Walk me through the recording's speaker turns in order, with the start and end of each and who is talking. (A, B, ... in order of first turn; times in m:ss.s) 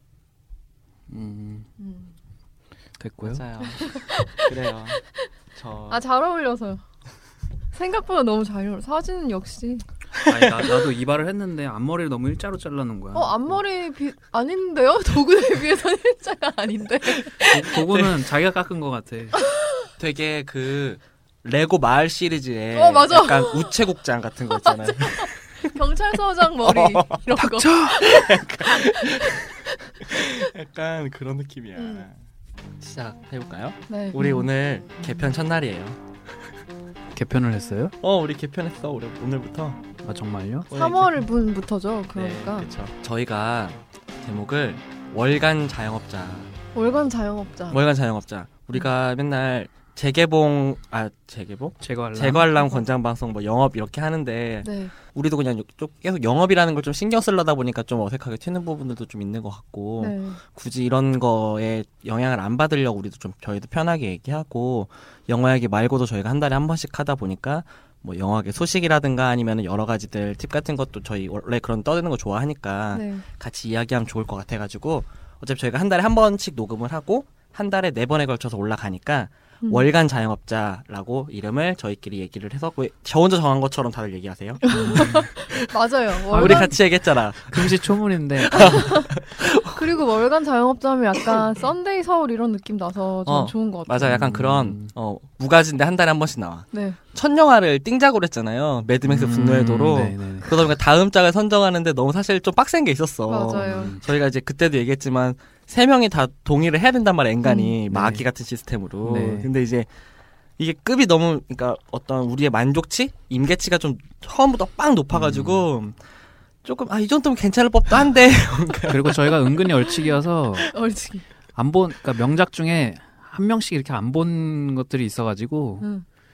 0:01.1-0:01.7 A
0:01.8-0:02.1 B
0:03.0-0:03.4 A
0:03.2-0:05.0 C
0:03.6-0:05.3 B
0:05.6-0:06.0 C
0:05.9-0:06.8 B
0:07.7-0:09.8 B
0:10.2-0:10.9 C
0:10.2-0:13.6 A
0:13.1-0:17.8 B
0:17.2-0:18.2 C
0:17.5-0:19.4 A
0:19.4-0:19.9 B
0:20.0-0:25.9 C
0:22.7-0:23.8 B
0:24.5-0:29.9 B
0:26.6-0:27.2 C
0:27.4-0:28.4 A
0:28.0-0:32.1 C
0:31.8-0:32.0 B
0:32.8-0:36.0 C
0:33.9-0:34.5 B
0:37.2-0:38.0 A
0:38.0-0:39.8 C
0:40.0-0:40.7 A
0:40.7-0:41.2 C
0:40.7-0:42.7 B
0:42.2-0:46.5 C
0:46.8-0:47.8 B
0:47.7-1:25.7 C
0:51.8-0:52.6 A
0:54.6-0:54.9 B
1:00.0-1:00.4 B
1:12.9-1:13.2 B
1:24.6-1:26.8 B
1:24.7-1:25.3 A
1:26.3-1:27.9 C
1:26.3-1:26.8 A
1:27.4-1:28.9 A
1:28.5-1:29.1 B
1:28.5-1:29.8 C
1:29.6-1:34.2 B
1:33.3-1:49.9 C
1:34.0-1:34.9 A
1:36.7-1:37.0 B
1:39.0-1:40.6 A
1:43.3-1:44.0 B
1:43.5-1:44.0 A
1:47.4-1:47.8 B
1:47.9-1:48.2 A
1:49.0-1:49.5 A
1:50.6-1:56.0 C
1:55.1-1:55.7 A
1:56.6-1:59.4 C
1:58.9-2:00.7 A
1:59.9-2:01.3 B
2:01.6-2:05.9 A